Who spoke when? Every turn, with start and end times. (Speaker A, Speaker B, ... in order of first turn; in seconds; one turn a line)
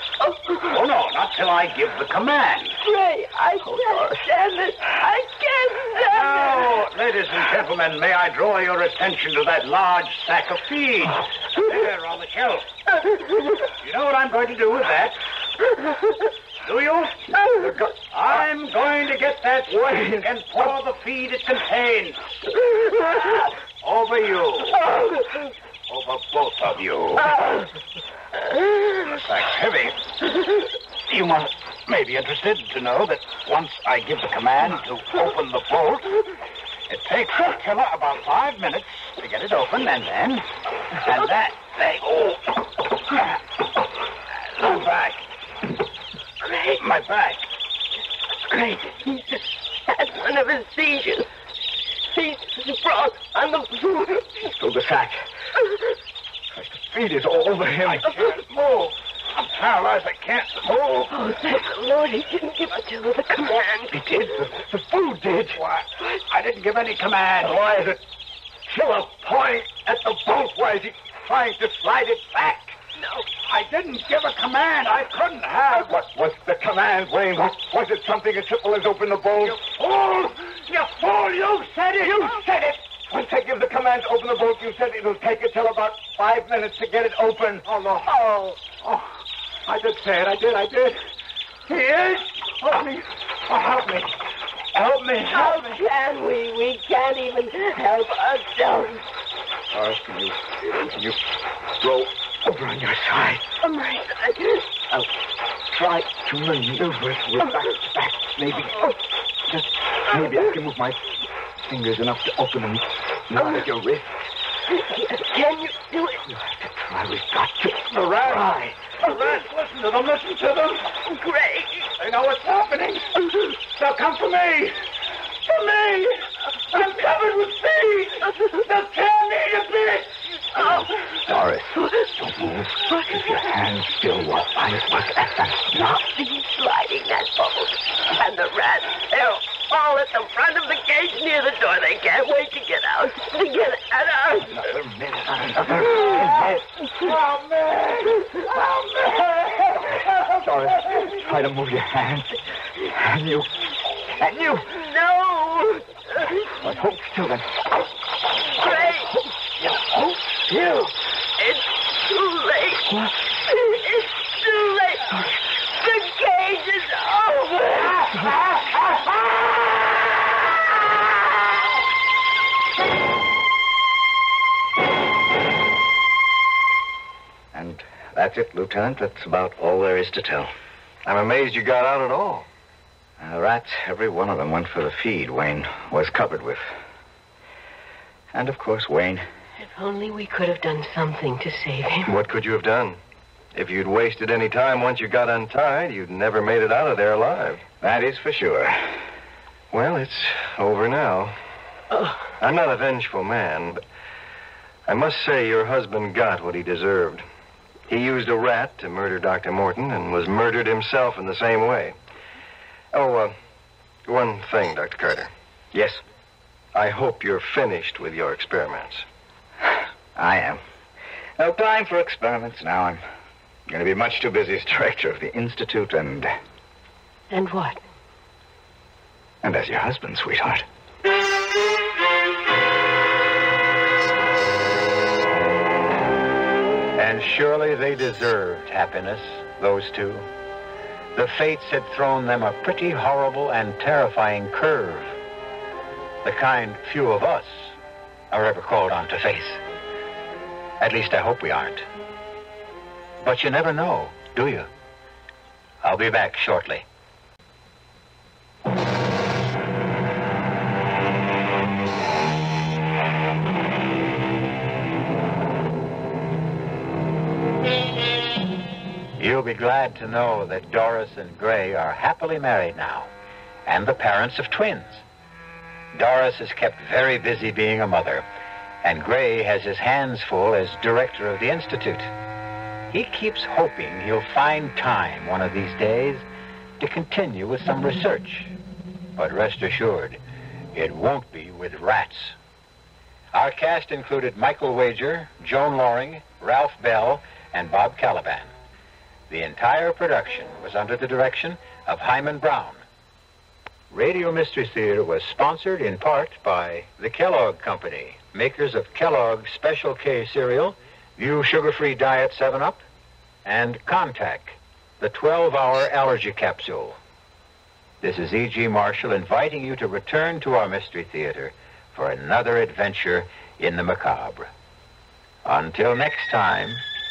Speaker A: 0.2-0.7
Speaker B: 0.6-2.8
Speaker A: 2.8-6.7
Speaker B: 6.0-12.7
Speaker B: 13.8-15.2
Speaker B: 16.6-22.4
Speaker C: 19.7-20.2
Speaker B: 23.8-24.9
Speaker B: 25.9-27.4
Speaker B: 28.9-30.4
Speaker B: 31.1-36.2
Speaker B: 36.9-42.5
Speaker B: 44.5-45.2
Speaker A: 46.4-46.9
Speaker B: 46.8-47.5
Speaker A: 48.4-51.3
Speaker A: 52.1-54.4
Speaker C: 54.4-55.2
Speaker C: 56.5-58.1
Speaker B: 57.8-61.1
Speaker A: 61.1-64.2
Speaker C: 63.9-65.6
Speaker B: 65.5-67.6
Speaker C: 67.4-68.0
Speaker C: 68.7-72.7
Speaker A: 73.0-73.2
Speaker B: 73.4-76.0
Speaker C: 75.8-79.6
Speaker B: 79.4-82.3
Speaker C: 82.0-87.8
Speaker B: 87.7-88.1
Speaker A: 88.3-88.5
Speaker B: 89.7-91.0
Speaker B: 91.7-94.0
Speaker B: 94.7-95.8
Speaker A: 95.3-99.0
Speaker C: 99.7-101.2
Speaker C: 101.8-103.4
Speaker A: 103.6-104.7
Speaker C: 105.7-108.8
Speaker C: 109.5-111.1
Speaker C: 111.6-114.3
Speaker A: 114.7-116.2
Speaker C: 116.3-118.8
Speaker B: 118.1-120.9
Speaker A: 121.0-121.9
Speaker B: 122.0-124.8
Speaker B: 125.5-130.2
Speaker A: 130.6-130.9
Speaker C: 131.2-136.0
Speaker A: 135.8-144.7
Speaker C: 144.5-146.7
Speaker B: 146.0-149.8
Speaker C: 150.2-154.8
Speaker A: 154.7-156.2
Speaker C: 156.4-157.6
Speaker A: 158.6-159.2
Speaker A: 160.5-168.2
Speaker C: 177.5-180.5
Speaker D: 181.0-182.4
Speaker C: 183.2-186.6
Speaker C: 188.3-189.2
Speaker A: 189.6-192.1
Speaker D: 192.1-193.0
Speaker D: 193.5-197.6
Speaker C: 197.8-199.0
Speaker D: 199.7-201.3
Speaker D: 202.4-203.8
Speaker D: 204.8-207.2
Speaker D: 207.9-211.9
Speaker D: 212.9-213.3
Speaker D: 214.1-215.3
Speaker C: 215.7-216.0
Speaker D: 216.7-219.0
Speaker C: 220.2-220.6
Speaker C: 221.4-223.0
Speaker C: 223.7-226.3
Speaker A: 227.3-227.8
Speaker C: 229.4-230.6
Speaker E: 236.9-240.3
Speaker E: 241.1-245.2
Speaker E: 246.2-247.8
Speaker E: 248.3-249.6
Speaker E: 250.8-251.8
Speaker E: 253.2-254.7
Speaker E: 255.8-256.8
Speaker E: 269.2-273.1
Speaker E: 273.6-275.0
Speaker E: 275.9-278.2
Speaker E: 278.8-282.1
Speaker E: 282.9-286.2
Speaker E: 286.8-288.5
Speaker E: 289.1-290.2
Speaker E: 290.7-292.4
Speaker E: 293.3-298.5
Speaker E: 299.3-302.8
Speaker E: 303.9-312.8
Speaker E: 313.4-317.0
Speaker E: 318.0-324.5
Speaker E: 325.4-326.8